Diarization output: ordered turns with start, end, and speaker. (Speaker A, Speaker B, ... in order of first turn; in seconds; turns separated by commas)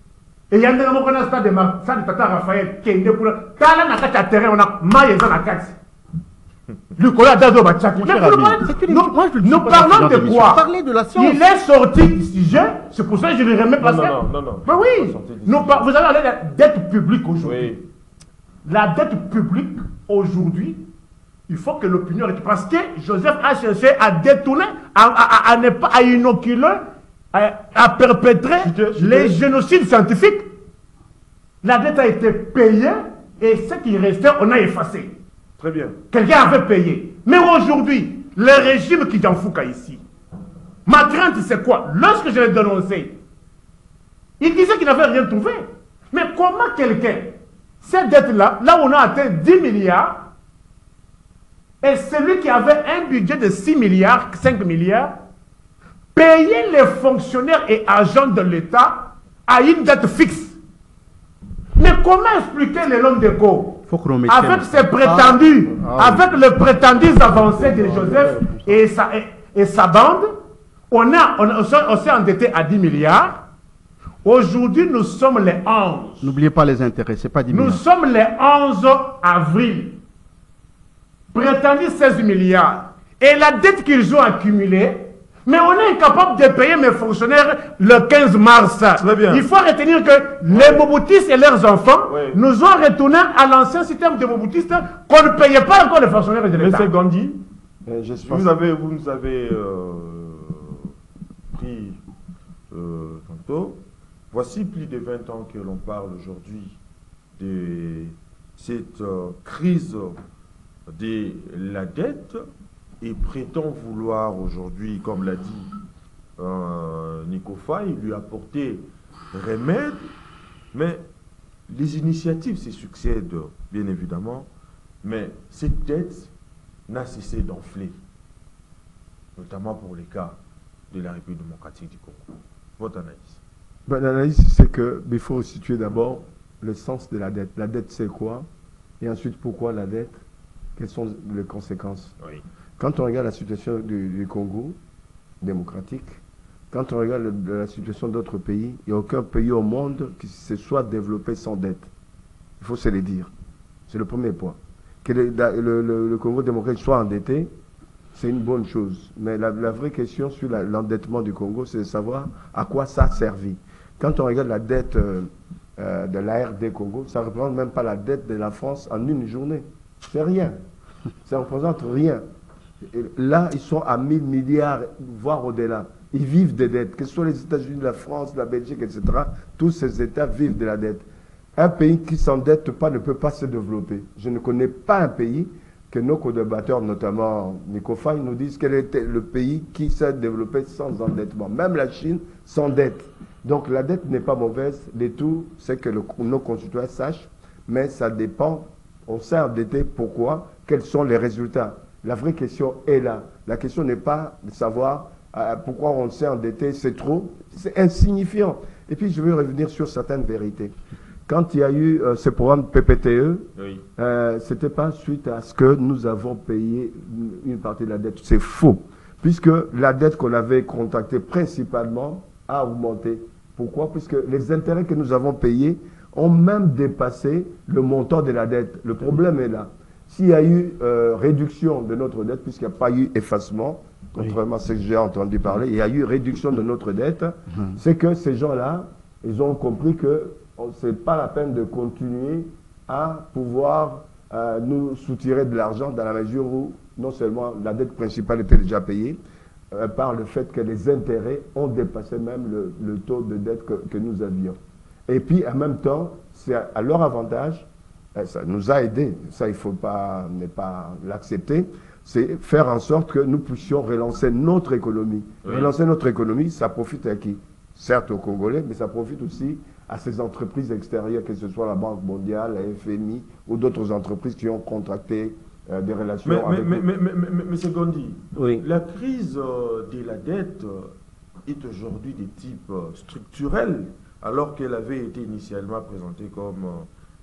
Speaker A: 0.5-5.8, Speaker A: 7.0-17.8, Speaker B: 8.0-11.4, Speaker C: 13.8-15.8, Speaker C: 17.4-17.8, Speaker A: 18.6-20.8, Speaker A: 21.5-30.5, Speaker C: 28.6-29.4, Speaker A: 31.6-35.1, Speaker C: 35.6-36.0, Speaker A: 36.1-40.0, Speaker A: 40.9-43.2, Speaker A: 44.4-50.2, Speaker A: 51.8-55.1, Speaker A: 56.1-60.6, Speaker A: 61.8-70.3, Speaker B: 63.9-66.4, Speaker D: 67.7-68.4, Speaker B: 67.9-68.8, Speaker A: 70.9-73.4, Speaker A: 74.2-76.3, Speaker B: 76.2-77.8, Speaker A: 77.5-80.0, Speaker A: 81.3-96.9, Speaker C: 89.0-89.5, Speaker C: 90.5-90.9, Speaker C: 92.0-92.4, Speaker C: 96.5-97.4, Speaker D: 97.8-98.5, Speaker C: 98.3-100.9, Speaker C: 101.5-102.0, Speaker C: 102.7-106.8, Speaker C: 107.4-110.2, Speaker C: 110.9-112.4, Speaker C: 113.0-115.7, Speaker C: 116.4-120.1, Speaker C: 120.7-121.1, Speaker C: 121.7-124.5, Speaker C: 125.0-126.3, Speaker C: 126.9-128.0, Speaker C: 129.3-130.4, Speaker C: 130.9-133.4, Speaker D: 133.9-138.5, Speaker D: 139.0-140.2, Speaker D: 140.8-142.1, Speaker D: 142.8-144.8, Speaker D: 145.4-146.2, Speaker D: 146.7-151.9, Speaker D: 152.6-153.3, Speaker D: 153.9-157.5, Speaker D: 158.1-170.6, Speaker D: 171.2-172.2, Speaker D: 172.9-181.0, Speaker D: 181.6-210.7, Speaker D: 211.2-249.2, Speaker C: 213.6-213.8, Speaker D: 249.7-276.9, Speaker C: 265.4-265.7, Speaker C: 276.2-286.9